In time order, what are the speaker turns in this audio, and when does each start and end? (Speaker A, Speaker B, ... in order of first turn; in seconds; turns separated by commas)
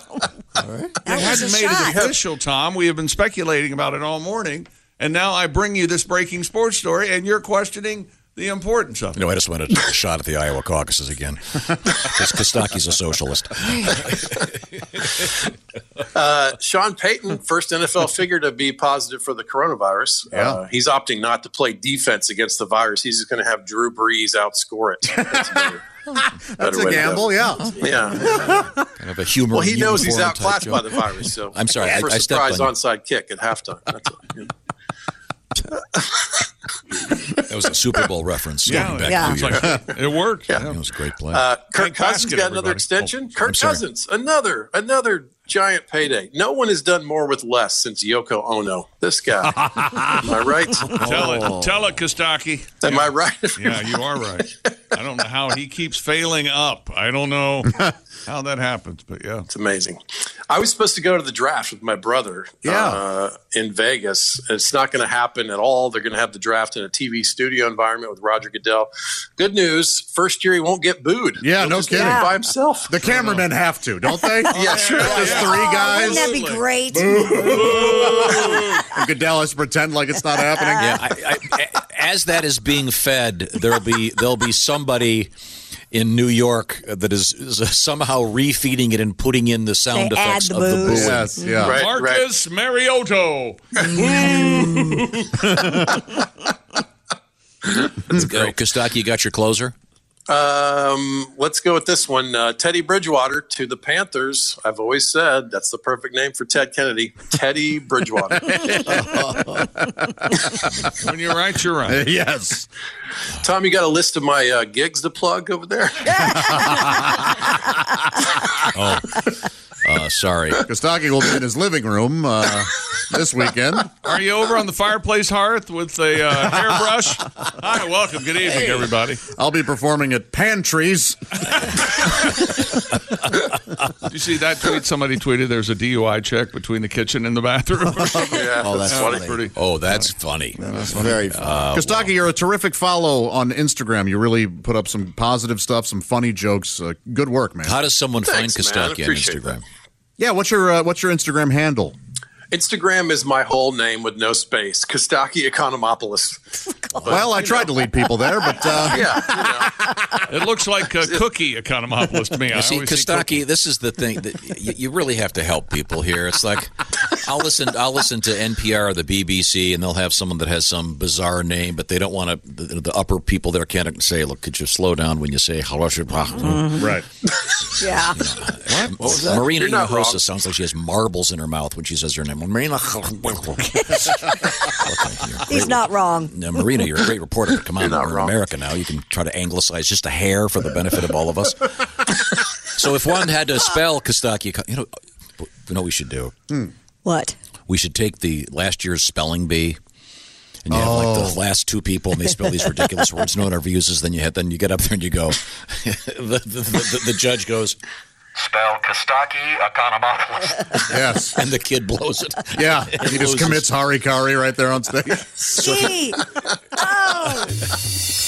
Speaker A: 1.0-2.0, Speaker B: 1.1-9.2, Speaker C: 9.2-14.5, Speaker D: 16.1-25.8, Speaker E: 20.3-20.6, Speaker E: 26.2-28.8, Speaker D: 26.6-28.6, Speaker C: 29.0-30.9, Speaker D: 29.5-34.5, Speaker C: 31.5-32.8, Speaker D: 35.7-36.5, Speaker C: 37.5-39.8, Speaker B: 38.6-40.8, Speaker A: 39.1-39.5, Speaker D: 39.5-39.9, Speaker C: 40.6-41.4, Speaker D: 41.3-51.2, Speaker B: 41.6-43.2, Speaker C: 43.5-43.8, Speaker B: 50.9-59.5, Speaker E: 51.2-51.5, Speaker D: 52.8-54.0, Speaker D: 59.5-73.0, Speaker E: 62.6-63.0, Speaker E: 71.4-72.3, Speaker A: 72.0-72.3, Speaker E: 72.9-76.3, Speaker B: 73.0-73.5, Speaker D: 74.5-75.6, Speaker B: 74.6-76.6, Speaker A: 75.2-78.3, Speaker B: 77.2-78.8, Speaker E: 78.1-81.0, Speaker A: 80.5-80.9, Speaker C: 80.8-85.3, Speaker C: 85.9-91.3, Speaker A: 89.9-91.6, Speaker E: 90.9-91.8, Speaker D: 91.6-92.2, Speaker B: 91.7-95.7, Speaker A: 94.0-94.6, Speaker E: 95.5-95.9, Speaker D: 97.6-98.5, Speaker C: 98.1-99.7, Speaker D: 100.3-109.0, Speaker E: 108.5-110.7, Speaker B: 111.0-112.0, Speaker E: 111.9-112.7, Speaker D: 113.4-116.8, Speaker E: 116.2-116.5, Speaker C: 118.7-119.2, Speaker C: 119.8-120.6, Speaker E: 120.7-123.9, Speaker B: 124.0-129.2, Speaker E: 129.3-131.4, Speaker B: 134.0-141.6, Speaker D: 138.3-139.4, Speaker C: 139.5-140.6, Speaker C: 141.2-142.1, Speaker E: 141.7-147.8, Speaker C: 147.7-149.6, Speaker D: 148.2-149.6, Speaker E: 150.2-152.0, Speaker D: 152.5-157.7, Speaker E: 157.1-159.5, Speaker D: 158.8-159.8, Speaker B: 160.3-163.4, Speaker C: 162.5-176.9, Speaker A: 176.4-177.0, Speaker E: 176.8-177.0, Speaker A: 177.8-178.4, Speaker C: 178.1-184.2, Speaker A: 179.1-179.4, Speaker D: 179.5-180.6, Speaker A: 183.7-184.9, Speaker C: 184.9-192.1, Speaker A: 185.5-186.8, Speaker D: 187.7-188.4, Speaker C: 192.7-194.9, Speaker C: 195.4-196.3, Speaker A: 197.1-197.3, Speaker C: 197.7-199.8, Speaker C: 200.7-207.8, Speaker E: 200.7-201.4, Speaker C: 208.4-213.7, Speaker E: 210.9-211.4, Speaker E: 212.6-215.4, Speaker A: 215.5-216.2, Speaker C: 215.5-216.0, Speaker A: 216.8-217.5